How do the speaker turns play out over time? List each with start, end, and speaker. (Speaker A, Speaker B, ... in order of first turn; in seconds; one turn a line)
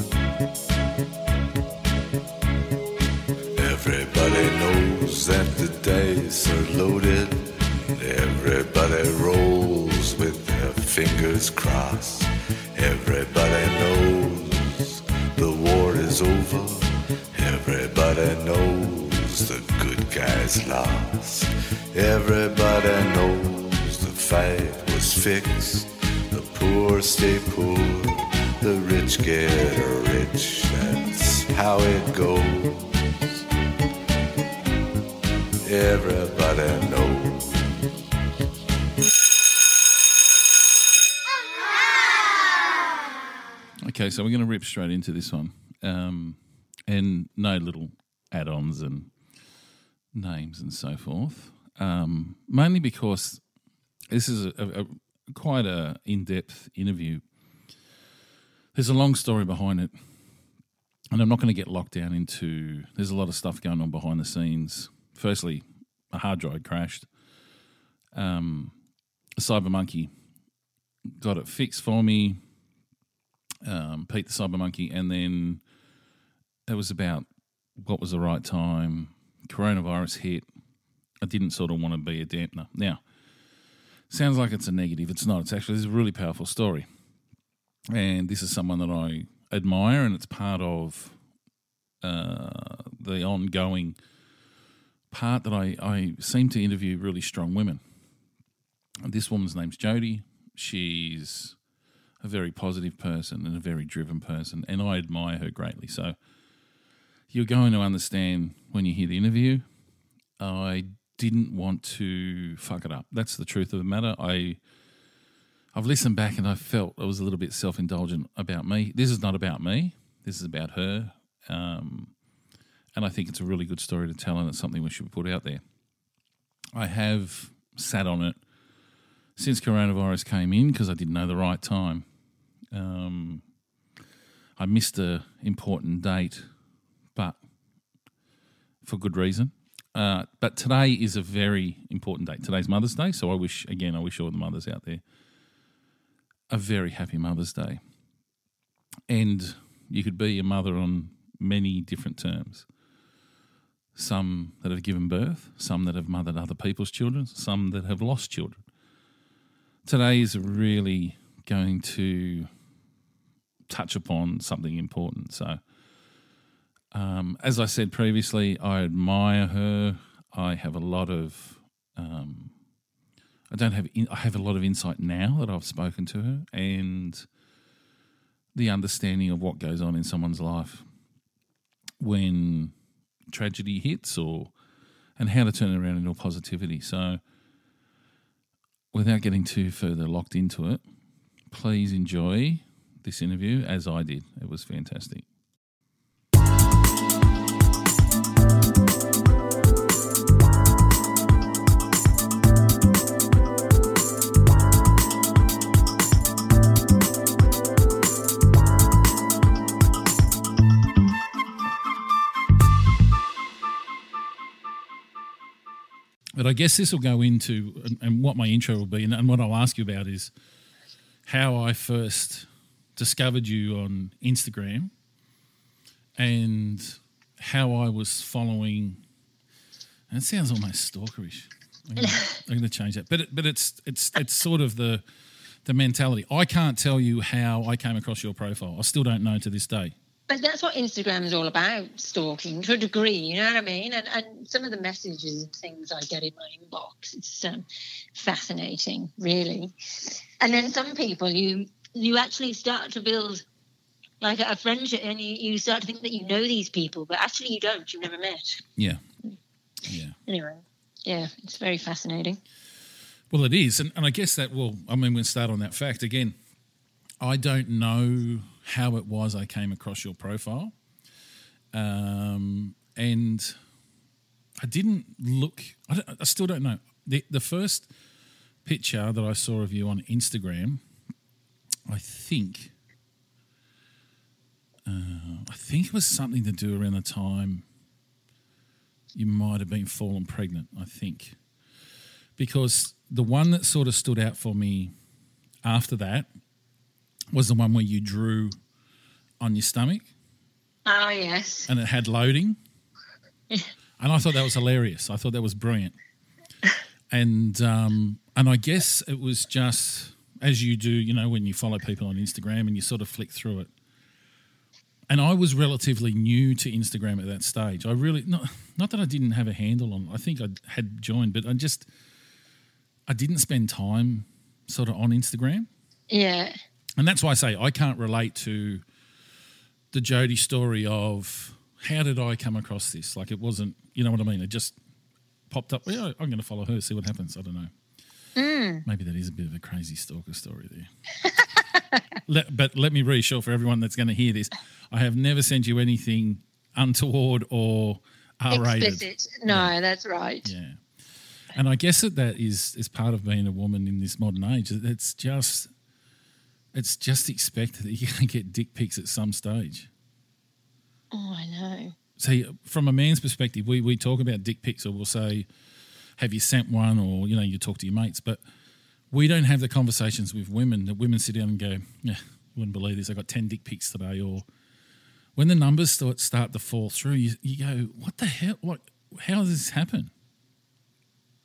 Speaker A: 3.6-33.2
Speaker A: 35.6-37.8
Speaker B: 43.8-49.1
Speaker B: 50.1-53.4
Speaker B: 54.1-57.2
Speaker B: 58.7-59.9
Speaker B: 61.1-67.1
Speaker B: 68.1-68.7
Speaker B: 69.4-70.1
Speaker B: 71.2-72.4
Speaker B: 73.6-75.6
Speaker B: 76.7-80.5
Speaker B: 81.2-83.0
Speaker B: 84.1-86.9
Speaker B: 87.9-91.2
Speaker B: 92.0-94.0
Speaker B: 95.1-97.8
Speaker B: 99.0-101.5
Speaker B: 102.2-106.2
Speaker B: 107.3-109.6
Speaker B: 110.4-114.6
Speaker B: 115.7-122.1
Speaker B: 122.9-125.6
Speaker B: 126.7-128.4
Speaker B: 129.4-132.1
Speaker B: 132.7-133.4
Speaker B: 134.6-136.5
Speaker B: 138.8-145.0
Speaker B: 146.5-147.8
Speaker B: 149.1-152.7
Speaker B: 153.9-158.6
Speaker B: 159.8-162.5
Speaker B: 163.7-165.6
Speaker B: 166.9-172.5
Speaker B: 173.5-177.2
Speaker B: 178.5-180.8
Speaker B: 182.0-182.7
Speaker B: 183.3-184.5
Speaker B: 185.2-187.2
Speaker B: 188.9-190.8
Speaker B: 191.5-195.2
Speaker B: 216.4-220.3
Speaker B: 221.2-224.9
Speaker B: 226.2-229.0
Speaker B: 230.1-235.0
Speaker B: 235.6-239.9
Speaker C: 240.3-249.7
Speaker C: 250.4-253.4
Speaker C: 254.2-258.6
Speaker B: 258.8-259.0
Speaker B: 259.8-260.1
Speaker C: 260.3-262.4
Speaker B: 263.3-266.3
Speaker B: 267.2-270.7
Speaker B: 271.7-273.6
Speaker B: 274.6-277.9
Speaker B: 278.6-280.8
Speaker B: 281.9-282.7
Speaker B: 284.9-287.6
Speaker B: 289.1-291.4
Speaker B: 292.4-294.9
Speaker B: 295.6-296.3
Speaker B: 297.3-298.6
Speaker B: 299.4-300.1
Speaker C: 300.9-301.7
Speaker B: 301.7-302.6
Speaker B: 304.0-305.9
Speaker B: 307.1-313.7
Speaker B: 315.1-321.9
Speaker B: 323.1-325.7
Speaker C: 326.1-326.5
Speaker B: 327.0-328.8
Speaker B: 329.9-334.8
Speaker B: 335.5-337.7
Speaker C: 338.4-338.8
Speaker B: 338.8-340.9
Speaker B: 342.3-349.7
Speaker C: 348.5-350.5
Speaker B: 350.4-350.8
Speaker B: 351.5-355.7
Speaker B: 356.7-359.9
Speaker C: 361.1-361.9
Speaker B: 362.2-365.5
Speaker B: 366.2-368.4
Speaker B: 369.1-374.4
Speaker B: 375.4-380.1